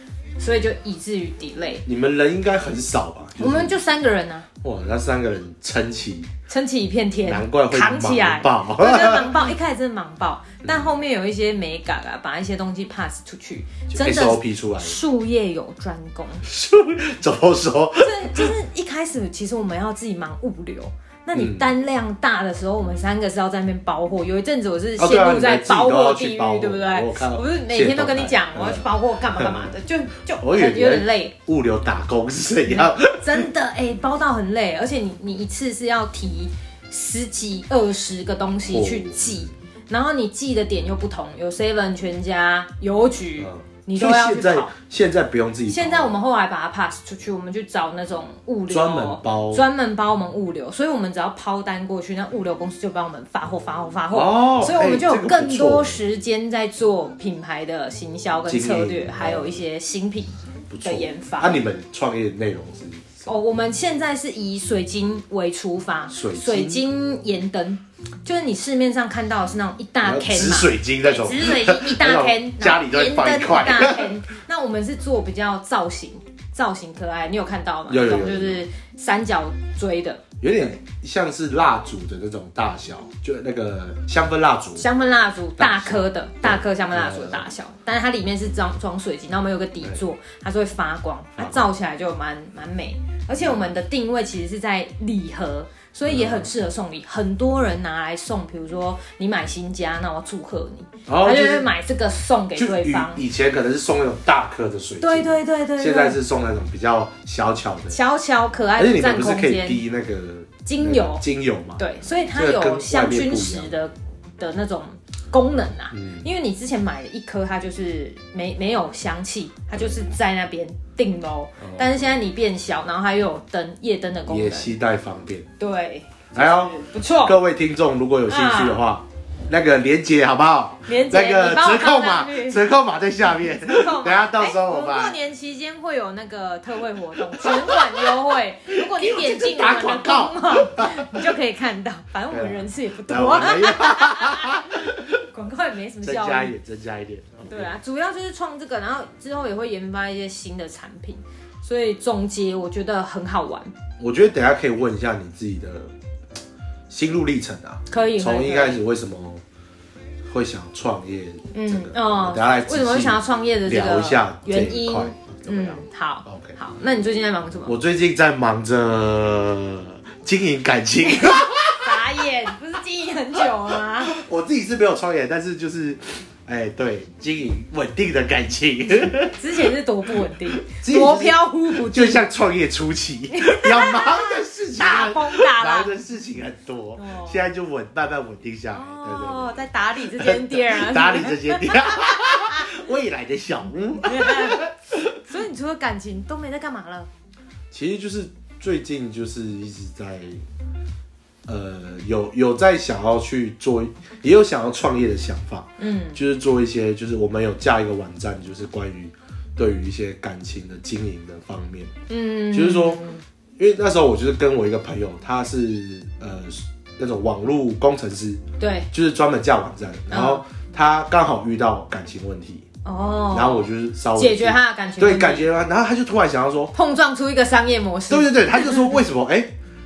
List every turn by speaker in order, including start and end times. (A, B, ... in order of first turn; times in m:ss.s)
0:00.4-0:01.8 A
0:01.8-0:03.7 B
0:03.4-0:04.5 A
0:04.6-0:06.3 B
0:06.5-0:16.4 A
0:07.2-0:09.4 B
0:10.6-0:10.9 B
0:13.9-0:15.0 B
0:16.4-0:18.5 B
0:18.0-0:31.3 A
0:21.3-0:21.7 B
0:25.0-0:29.7 B
0:30.4-0:33.5 B
0:32.7-0:44.7 A
0:38.7-0:39.5 B
0:43.4-0:46.1 B
0:45.7-1:01.6 A
0:48.7-0:49.6 B
0:54.1-0:56.0 B
0:58.5-0:59.6 B
1:00.7-1:03.2 B
1:03.2-1:20.2 A
1:06.1-1:06.8 B
1:10.0-1:14.1 B
1:17.9-1:18.6 B
1:20.4-1:24.9 B
1:24.8-1:43.2 A
1:25.6-1:27.4 B
1:31.4-1:31.6 B
1:36.1-1:36.5 B
1:41.1-1:41.7 B
1:42.6-1:48.0 B
1:45.0-1:46.2 A
1:47.9-1:49.8 A
1:48.8-1:51.8 B
1:50.6-1:51.2 A
1:51.8-2:04.7 A
1:52.3-1:53.7 B
1:55.9-1:56.2 B
2:01.6-2:01.9 B
2:04.3-2:05.5 B
2:05.6-2:07.4 A
2:06.3-2:15.2 B
2:08.3-2:08.8 A
2:10.8-2:12.6 A
2:13.3-2:26.5 A
2:17.3-2:18.2 B
2:18.7-2:21.2 B
2:22.3-2:25.2 B
2:26.0-2:27.7 B
2:27.5-2:33.7 A
2:34.0-2:35.9 B
2:36.9-2:39.4 B
2:37.9-2:38.8 A
2:40.2-2:46.6 B
2:41.5-2:47.8 A
2:47.6-2:52.0 B
2:51.3-2:54.2 A
2:54.0-2:59.4 B
2:59.3-3:02.2 A
3:00.3-3:15.0 B
3:03.3-3:05.9 A
3:07.0-3:07.4 A
3:08.7-3:12.8 A
3:14.0-3:17.1 A
3:17.7-3:20.4 B
3:21.4-3:31.9 B
3:25.8-3:26.2 A
3:32.1-3:33.2 A
3:32.5-3:33.0 B
3:33.6-3:42.7 B
3:38.6-3:38.9 A
3:40.1-3:40.4 A
3:42.8-3:45.5 A
3:43.3-3:46.7 B
3:46.7-3:48.9 A
3:48.1-3:49.5 B